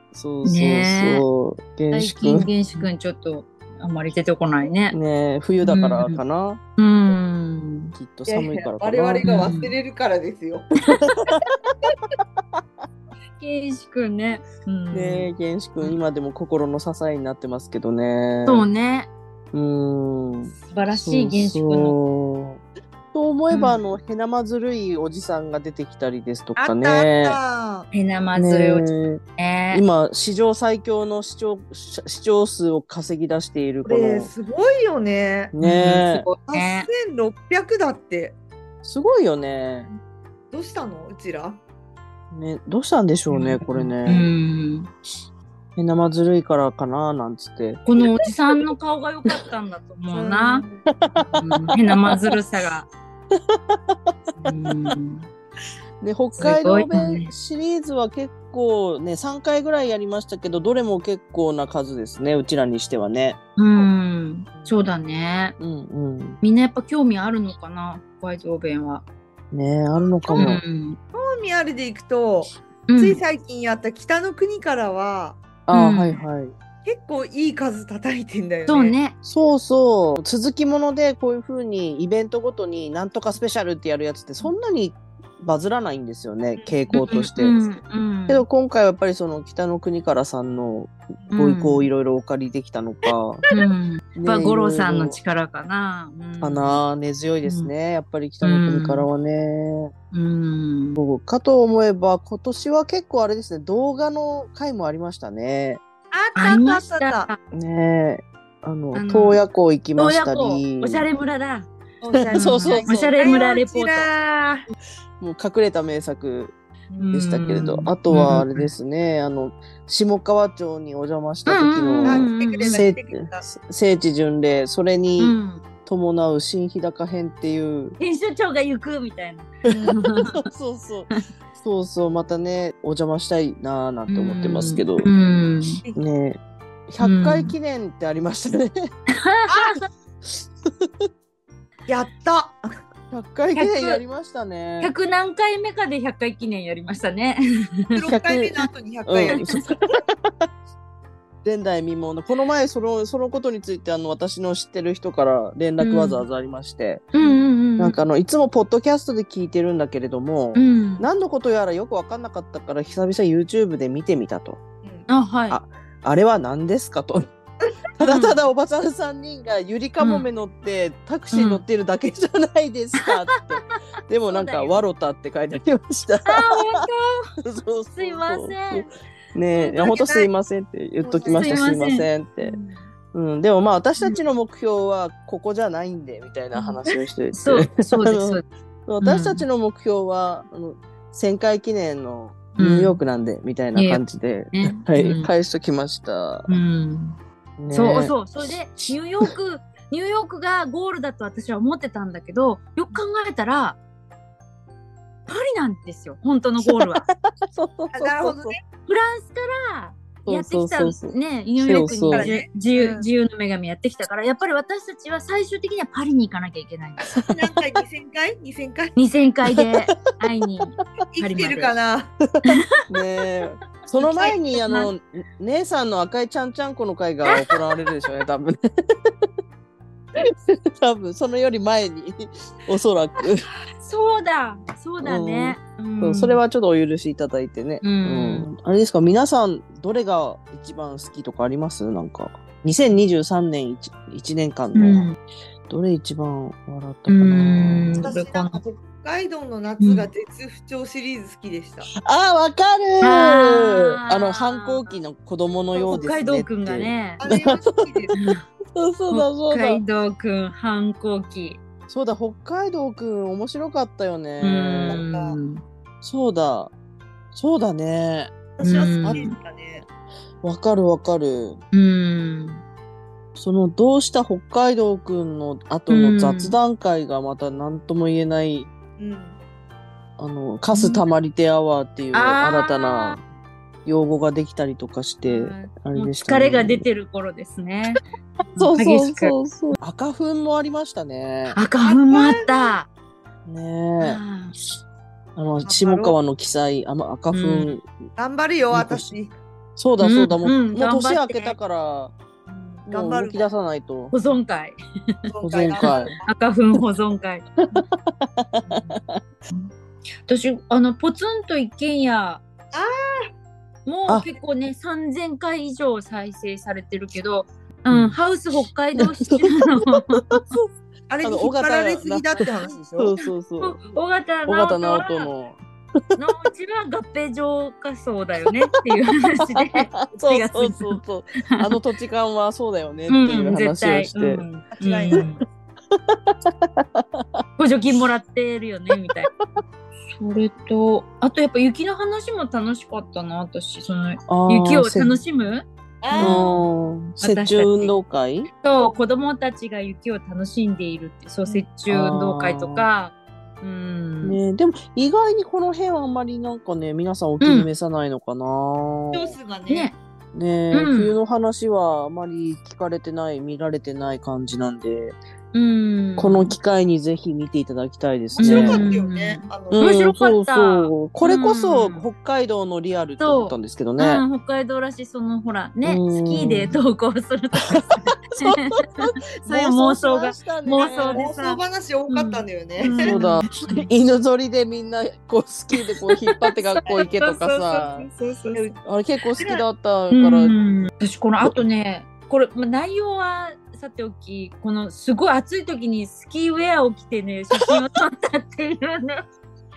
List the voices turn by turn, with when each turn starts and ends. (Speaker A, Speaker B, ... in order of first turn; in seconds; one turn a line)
Speaker A: 0.1-2.5
Speaker B: 0.4-1.2
Speaker B: 1.9-5.0
Speaker A: 4.9-6.6
Speaker B: 5.6-6.2
Speaker B: 6.8-7.9
Speaker A: 8.0-9.6
Speaker C: 8.3-10.7
Speaker B: 9.2-9.7
Speaker B: 10.8-11.1
Speaker A: 11.1-11.7
Speaker B: 13.4-16.0
Speaker A: 14.9-18.6
Speaker B: 18.5-19.1
Speaker A: 19.5-22.6
Speaker B: 20.7-22.0
Speaker A: 23.1-27.4
Speaker B: 23.5-23.8
Speaker C: 26.6-27.9
Speaker B: 27.9-28.9
Speaker A: 28.3-34.3
Speaker B: 29.4-29.8
Speaker C: 33.8-35.5
Speaker A: 35.5-36.3
Speaker B: 35.6-36.9
Speaker C: 36.5-38.4
Speaker A: 38.8-39.9
Speaker C: 40.5-41.6
Speaker A: 42.3-44.3
Speaker B: 43.3-44.9
Speaker A: 45.8-47.8
Speaker B: 47.8-50.6
Speaker C: 50.1-50.8
Speaker A: 50.9-52.4
Speaker B: 51.2-52.9
Speaker A: 53.4-53.8
Speaker B: 54.4-55.2
Speaker A: 56.0-63.4
Speaker B: 56.4-57.3
Speaker B: 63.6-65.5
Speaker A: 65.6-66.4
Speaker B: 66.4-69.0
Speaker A: 69.5-70.6
Speaker B: 70.3-71.0
Speaker C: 71.1-75.4
Speaker B: 72.9-73.2
Speaker A: 75.7-76.5
Speaker B: 75.7-76.2
Speaker C: 76.8-78.9
Speaker B: 78.7-79.2
Speaker A: 79.2-87.6
Speaker C: 86.6-86.8
Speaker B: 86.9-88.4
Speaker A: 88.3-93.4
Speaker B: 91.3-91.9
Speaker B: 93.5-96.8
Speaker A: 94.2-95.2
Speaker A: 96.4-99.9
Speaker B: 97.4-97.7
Speaker B: 98.4-99.1
Speaker B: 100.1-101.0
Speaker A: 101.0-105.8
Speaker C: 106.1-107.3
Speaker B: 106.3-107.3
Speaker A: 107.5-111.1
Speaker B: 108.9-109.4
Speaker B: 110.0-111.7
Speaker C: 112.0-114.6
Speaker A: 112.2-113.2
Speaker B: 112.3-114.2
Speaker A: 115.2-116.5
Speaker B: 117.0-118.7
Speaker A: 117.1-128.0
Speaker B: 121.5-122.8
Speaker C: 122.0-123.4
Speaker B: 125.2-125.6
Speaker B: 128.0-130.4
Speaker A: 129.8-135.1
Speaker B: 134.1-135.8
Speaker A: 135.9-138.7
Speaker B: 137.0-137.5
Speaker B: 139.1-139.8
Speaker C: 139.5-139.7
Speaker C: 141.9-142.6
Speaker A: 143.1-144.9
Speaker B: 143.5-144.0
Speaker B: 144.8-148.1
Speaker C: 147.9-149.5
Speaker A: 148.1-150.3
Speaker A: 151.4-157.1
Speaker B: 155.8-156.2
Speaker B: 157.1-158.0
Speaker A: 157.8-164.6
Speaker B: 160.5-161.1
Speaker B: 165.1-165.6
Speaker A: 165.5-167.2
Speaker A: 167.9-176.8
Speaker B: 168.0-168.4
Speaker B: 170.0-170.3
Speaker B: 171.3-171.6
Speaker B: 174.3-174.8
Speaker B: 176.2-177.2
Speaker A: 177.4-182.6
Speaker B: 177.9-178.9
Speaker B: 179.6-180.0
Speaker C: 179.6-180.3
Speaker C: 181.0-181.7
Speaker B: 181.3-182.1
Speaker C: 182.4-182.9
Speaker A: 183.1-196.6
Speaker B: 187.3-188.4
Speaker B: 189.0-189.4
Speaker B: 192.6-193.0
Speaker B: 193.8-195.3
Speaker B: 196.5-197.2
Speaker A: 197.6-198.1
Speaker B: 197.7-203.8
Speaker B: 205.3-207.0
Speaker A: 206.6-208.6
Speaker C: 207.9-208.6
Speaker B: 208.9-217.2
Speaker A: 210.2-212.3
Speaker C: 212.1-213.1
Speaker C: 217.3-218.9
Speaker B: 218.9-221.8
Speaker C: 221.1-222.1
Speaker A: 222.4-229.1
Speaker C: 224.0-224.4
Speaker B: 224.6-224.9
Speaker B: 227.3-227.6
Speaker A: 230.3-233.5
Speaker B: 233.8-236.4
Speaker A: 235.0-245.1
Speaker B: 237.8-238.5
Speaker B: 244.8-245.2
Speaker A: 245.7-248.1
Speaker B: 247.1-248.6
Speaker C: 248.0-251.9
Speaker B: 249.8-250.1
Speaker A: 252.0-259.8
Speaker B: 253.0-255.0
Speaker B: 255.8-257.2
Speaker C: 257.2-258.1
Speaker B: 258.1-258.4
Speaker B: 259.1-261.6
Speaker A: 261.9-265.0
Speaker B: 264.4-265.6
Speaker C: 264.8-265.4
Speaker A: 266.0-266.7
Speaker A: 267.3-268.3
Speaker C: 268.6-269.8
Speaker B: 268.6-269.3
Speaker A: 269.0-269.3
Speaker A: 270.4-271.6
Speaker B: 271.7-272.6
Speaker A: 273.4-278.7
Speaker B: 275.9-276.6
Speaker C: 279.0-279.4
Speaker A: 280.2-283.2
Speaker B: 280.7-281.1
Speaker B: 282.1-283.2
Speaker A: 283.9-286.8
Speaker B: 285.2-288.0
Speaker B: 288.5-289.8
Speaker A: 288.6-291.6
Speaker B: 291.5-292.9
Speaker C: 291.8-292.7
Speaker A: 293.4-294.2
Speaker B: 294.0-294.5
Speaker A: 295.4-297.9
Speaker C: 295.6-296.2
Speaker B: 297.3-297.8
Speaker C: 298.2-299.4
Speaker A: 298.7-299.1
Speaker A: 299.8-302.1
Speaker B: 300.0-301.6
Speaker C: 302.5-303.4
Speaker A: 302.9-304.1
Speaker B: 304.1-307.6
Speaker C: 305.3-306.2
Speaker A: 305.4-306.1
Speaker A: 307.7-309.2
Speaker B: 308.7-309.0
Speaker B: 310.3-312.4
Speaker B: 313.9-320.4
Speaker A: 317.9-318.2
Speaker A: 319.0-320.7
Speaker C: 321.1-323.1
Speaker A: 321.2-322.4
Speaker A: 322.9-323.8
Speaker B: 323.2-325.3
Speaker A: 324.4-326.0
Speaker B: 326.2-331.0
Speaker A: 330.0-334.4
Speaker B: 333.1-335.4
Speaker C: 334.8-335.4
Speaker A: 335.9-337.4
Speaker B: 337.6-339.4
Speaker B: 340.2-346.6
Speaker A: 344.3-345.2
Speaker C: 346.0-346.6
Speaker A: 346.2-348.5
Speaker B: 347.2-347.9
Speaker B: 348.6-354.4
Speaker A: 351.9-352.9
Speaker A: 354.2-359.4
Speaker B: 357.4-357.7
Speaker C: 359.1-359.9
Speaker B: 359.7-359.9
Speaker A: 360.3-365.2
Speaker B: 360.7-361.1
Speaker B: 365.5-366.6
Speaker A: 366.2-368.8
Speaker C: 368.4-369.9
Speaker B: 368.4-372.1
Speaker A: 369.7-374.2
Speaker B: 373.2-383.9
Speaker A: 375.8-376.8
Speaker A: 379.0-381.2
Speaker C: 380.8-383.1
Speaker A: 383.0-388.1
Speaker B: 386.5-388.7
Speaker C: 386.9-387.2
Speaker A: 388.8-390.6
Speaker C: 389.3-389.6
Speaker B: 390.1-399.2